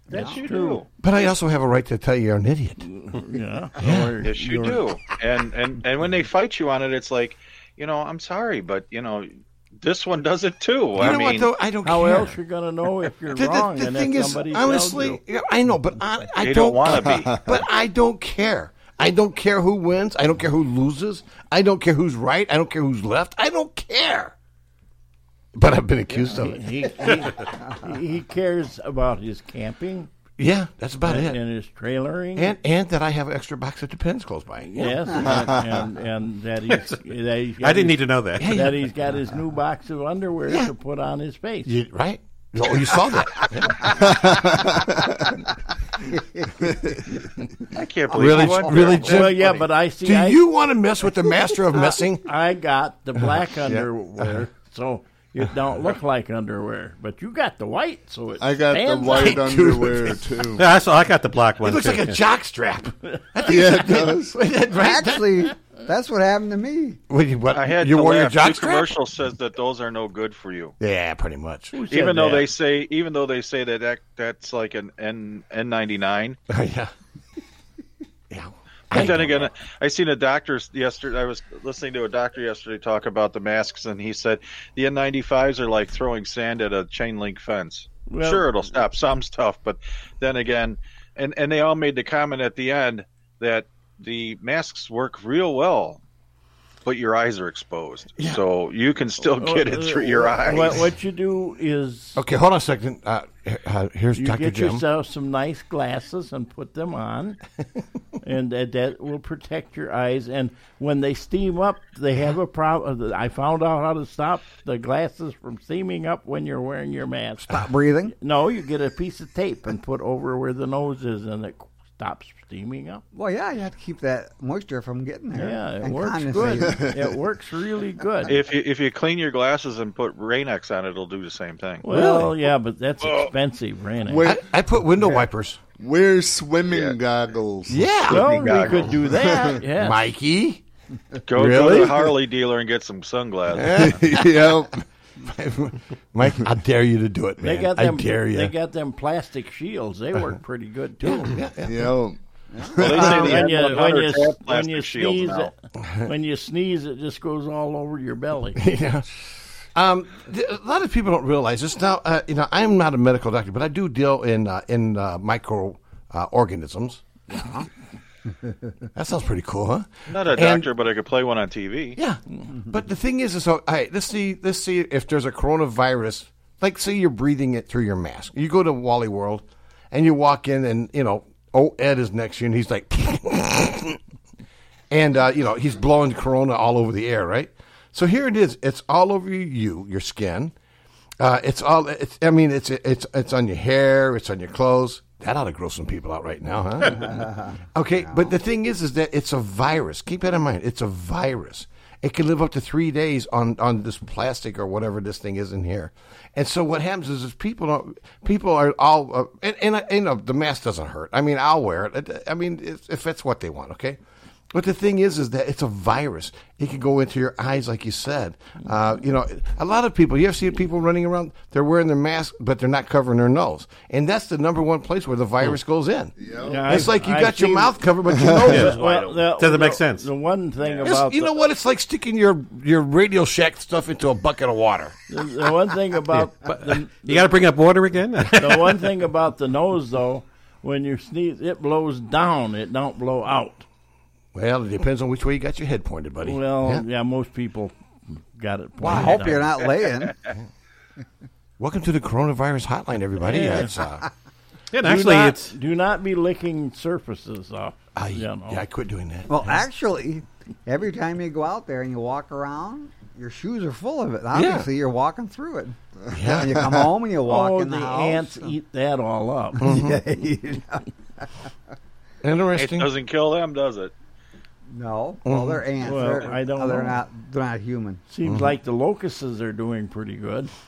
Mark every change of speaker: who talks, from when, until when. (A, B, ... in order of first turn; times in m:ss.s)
0:00.1-0:00.4 A
0:00.1-0:00.8 B
0:00.2-0:00.8 C
0:01.0-0:02.8 D
0:02.8-0:04.8 C
0:03.8-0:04.1 D
0:04.2-0:11.5 B
0:11.0-0:12.4 D
0:11.8-0:15.2 C
0:13.3-0:24.3 D
0:16.4-0:17.3 B
0:25.5-0:26.8 D
0:26.1-0:30.1 C
0:30.4-0:31.4 D
0:31.0-0:32.6 C
0:32.4-0:34.9 D
0:34.6-0:41.7 C
0:37.6-0:38.6 E
0:38.4-0:38.8 D
0:41.6-0:44.3 D
0:44.0-0:45.1 F
0:47.7-0:49.6 B
0:48.1-0:49.0 A
0:48.1-0:52.2 D
0:49.1-0:50.4 C
0:52.2-0:59.4 C
0:53.2-0:54.5 D
0:58.4-1:00.7 F
0:59.1-1:00.2 D
1:00.6-1:02.2 E
1:01.6-1:05.4 D
1:03.4-1:04.4 F
1:04.7-1:07.0 A
1:07.1-1:08.9 D
1:07.5-1:10.7 B
1:10.8-1:11.7 D
1:11.7-1:12.5 C
1:11.9-1:16.4 B
1:16.5-1:16.9 D
1:18.3-1:19.5 D
1:18.9-1:36.0 B
1:28.1-1:28.5 C
1:36.8-1:40.8 B
1:39.4-1:42.2 C
1:42.2-1:44.8 D
1:44.2-1:47.4 C
1:48.2-1:57.5 C
1:57.4-1:58.1 A
1:58.1-2:03.0 C
2:03.1-2:06.9 A
2:05.4-2:08.4 C
2:06.6-2:07.0 F
2:08.3-2:11.8 B
2:11.8-2:14.3 C
2:11.9-2:12.3 D
2:14.1-2:14.4 F
2:14.2-2:15.6 D
2:15.8-2:18.1 F
2:16.7-2:17.0 B
2:17.7-2:18.5 D
2:18.1-2:20.0 C
2:18.2-2:18.9 B
2:19.0-2:19.6 F
2:19.7-2:20.6 D
2:21.3-2:23.9 B
2:21.3-2:22.2 D
2:23.5-2:24.6 D
2:23.8-2:24.7 F
2:25.2-2:28.5 D
2:27.4-2:31.3 C
2:31.0-2:31.9 D
2:31.6-2:32.2 F
2:32.5-2:33.4 A
2:32.8-2:33.3 F
2:32.8-2:35.5 B
2:32.9-2:35.5 C
2:35.8-2:36.1 D
2:36.0-2:38.6 C
2:38.6-2:39.1 D
2:39.7-2:47.0 D
2:47.3-2:47.7 A
2:48.9-2:50.7 D
2:50.1-2:52.0 B
2:52.0-3:04.0 D
3:04.9-3:10.5 D
3:11.2-3:17.2 D
3:17.0-3:18.3 A
3:17.7-3:34.0 D
3:34.5-3:46.1 D
3:46.2-3:46.8 F
3:46.5-3:51.3 C
3:46.6-3:48.8 D
3:48.2-3:48.8 F
3:48.5-3:50.1 E
3:50.6-3:50.9 B
3:50.8-3:54.9 D
3:55.1-3:57.3 C
3:56.4-3:58.7 E
3:58.4-4:03.6 C
4:04.3-4:06.8 D
4:06.2-4:07.7 C
4:08.3-4:09.5 C
4:08.8-4:10.3 A
4:11.6-4:14.1 D
4:13.2-4:13.7 C
4:14.7-4:15.5 E
4:14.8-4:18.6 C
4:17.9-4:19.5 D
4:19.3-4:25.8 A
4:24.3-4:24.7 D
4:26.1-4:26.7 D
4:26.3-4:28.5 A
4:27.2-4:29.7 C
4:29.6-4:31.5 A
4:29.6-4:30.0 D
4:32.2-4:32.9 D
4:32.5-4:33.9 B
4:34.7-4:38.0 A
4:35.2-4:35.6 D
4:35.8-4:37.0 C
4:38.1-4:40.5 C
4:38.2-4:38.6 D